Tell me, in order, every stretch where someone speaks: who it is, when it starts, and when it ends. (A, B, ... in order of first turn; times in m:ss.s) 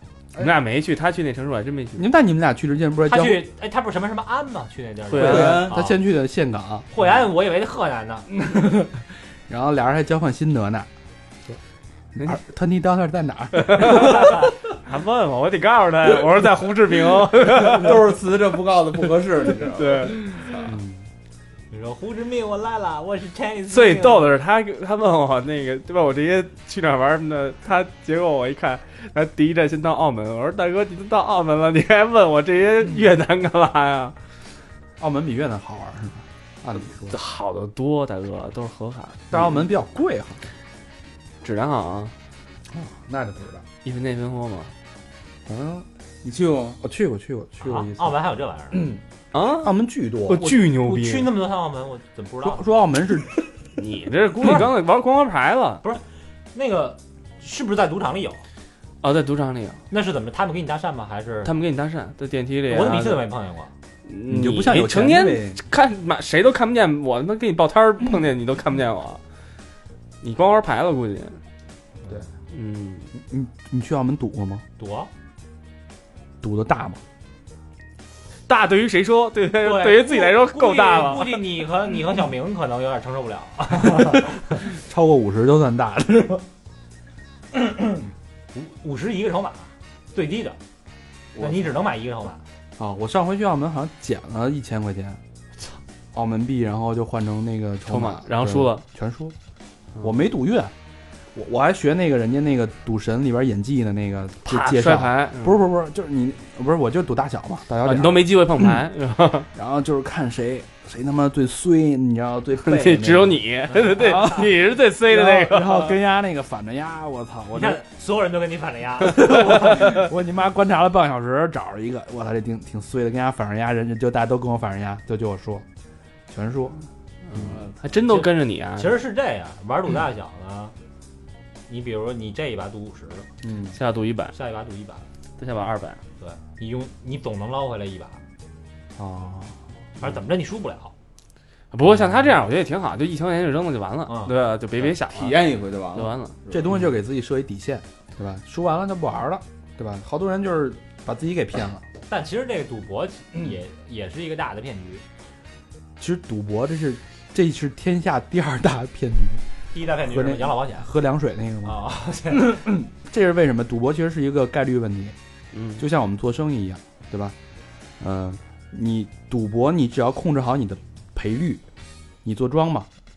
0:00.4-0:02.1 A
0:02.0-0:03.4 B
0:03.1-0:06.0 C
0:05.1-0:05.7 A
0:05.2-0:05.8 D
0:05.2-0:06.9 B
0:06.9-0:08.3 C
0:08.3-0:10.9 B
0:12.2-0:14.4 B
0:13.5-0:18.0 A
0:17.4-0:20.7 D
0:19.7-0:20.6 A
0:20.6-0:21.0 B
0:21.7-0:24.3 C
0:23.7-0:34.1 A
0:35.0-0:37.2 B
0:37.1-0:39.4 A
0:39.3-0:40.4 B
0:41.4-0:42.1 A
0:42.7-0:43.6 B
0:43.8-0:44.7 A
0:45.5-0:45.8 B
0:46.2-0:46.8 D
0:46.8-0:48.1 B
0:47.6-0:48.9 C
0:48.7-0:49.0 B
0:49.3-0:49.7 A
0:49.6-0:50.5 B
0:50.3-0:51.3 A
0:50.4-0:52.6 C
0:52.4-0:53.4 B
0:53.8-0:55.8 A
0:56.5-0:58.4 C
0:59.0-0:59.8 A
0:59.9-1:01.5 C
1:01.4-1:03.2 A
1:02.7-1:03.7 C
1:04.0-1:09.2 A
1:04.3-1:05.6 B
1:10.2-1:11.4 A
1:12.5-1:13.1 A
1:13.1-1:14.6 B
1:14.8-1:15.1 C
1:16.4-1:17.0 B
1:18.5-1:21.4 A
1:19.6-1:24.6 C
1:24.0-1:26.4 B
1:28.5-1:30.6 C
1:31.3-1:31.8 D
1:31.4-1:32.4 C
1:32.8-1:35.2 B
1:36.1-1:39.3 B
1:37.8-1:38.8 A
1:40.0-1:40.7 B
1:41.3-1:48.8 B
1:44.4-1:45.6 A
1:47.8-1:49.5 A
1:49.5-1:53.4 B
1:52.6-1:56.0 A
1:53.9-1:54.5 B
1:55.0-1:57.8 B
1:57.5-2:00.0 C
1:59.0-2:05.6 B
2:06.3-2:06.8 B
2:07.3-2:09.0 A
2:07.4-2:07.8 D
2:08.1-2:10.7 C
2:11.7-2:13.3 C
2:13.4-2:13.8 B
2:13.7-2:14.3 A
2:14.3-2:15.0 C
2:15.4-2:16.0 A
2:16.2-2:18.2 C
2:19.0-2:19.6 B
2:20.0-2:20.9 C
2:21.7-2:26.3 A
2:24.0-2:24.3 C
2:24.8-2:26.8 D
2:26.5-2:31.8 B
2:32.1-2:35.0 C
2:36.0-2:39.4 B
2:39.7-2:40.9 C
2:40.0-2:41.8 B
2:41.6-2:42.6 C
2:42.3-2:45.2 B
2:45.5-2:45.8 A
2:45.8-2:47.3 B
2:48.0-2:51.6 B
2:52.2-2:52.9 B